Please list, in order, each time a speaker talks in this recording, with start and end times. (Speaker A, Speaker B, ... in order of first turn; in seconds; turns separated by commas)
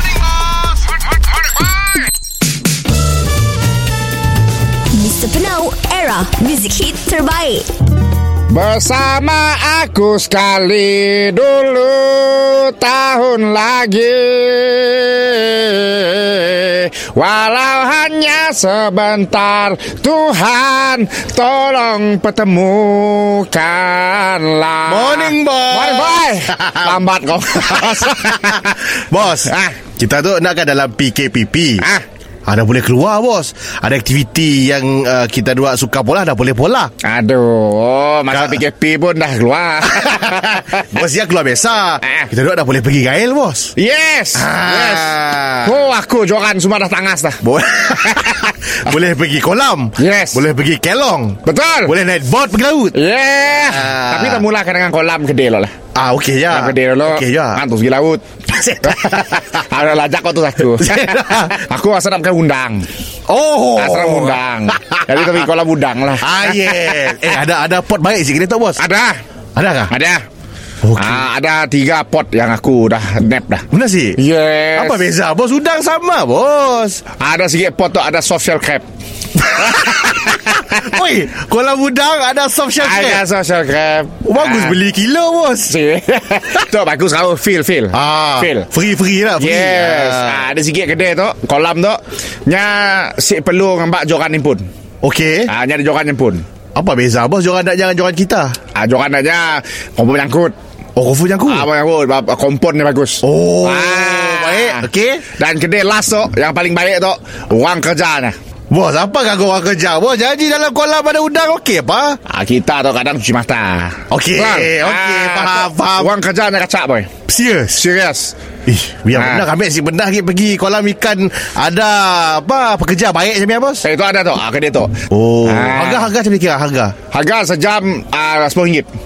Speaker A: 4.9-7.7, Speaker B: 8.5-29.8, Speaker C: 24.9-27.0, Speaker C: 27.6-31.9, Speaker B: 31.8-32.0, Speaker C: 32.5-36.9, Speaker B: 37.0-40.9, Speaker C: 38.3-38.6, Speaker C: 39.9-43.7, Speaker B: 43.8-47.4, Speaker C: 44.3-45.8, Speaker C: 47.4-53.0, Speaker B: 48.0-48.9, Speaker B: 50.0-50.4, Speaker B: 51.5-51.9, Speaker B: 52.9-55.7, Speaker C: 53.6-54.4, Speaker C: 55.9-57.6, Speaker B: 56.5-62.9, Speaker C: 58.5-59.4, Speaker C: 60.8-61.5, Speaker C: 63.3-65.5, Speaker B: 63.8-67.4, Speaker C: 66.2-68.8, Speaker B: 68.8-69.2, Speaker C: 69.5-69.9, Speaker B: 69.9-70.2, Speaker C: 70.8-71.2, Speaker B: 70.9-73.6, Speaker C: 73.7-74.2, Speaker B: 74.2-75.1, Speaker C: 74.8-77.0, Speaker B: 77.2-78.8, Speaker C: 79.4-83.2, Speaker B: 79.5-81.0, Speaker B: 82.8-84.8, Speaker C: 84.2-85.8, Speaker B: 85.7-88.7, Speaker C: 87.9-90.4, Speaker B: 89.4-94.7, Speaker C: 95.0-95.5, Speaker B: 95.5-96.4, Speaker C: 96.7-98.6, Speaker B: 98.7-100.5, Speaker C: 101.0-101.7, Speaker B: 101.5-108.3, Speaker C: 103.2-105.3, Speaker C: 108.7-112.2, Speaker B: 112.3-117.1, Speaker C: 114.1-116.1, Speaker C: 117.3-117.8, Speaker B: 117.8-118.3, Speaker C: 118.7-123.8, Speaker B: 119.1-119.5, Speaker B: 123.8-126.1, Speaker C: 125.1-127.0, Speaker B: 127.1-128.9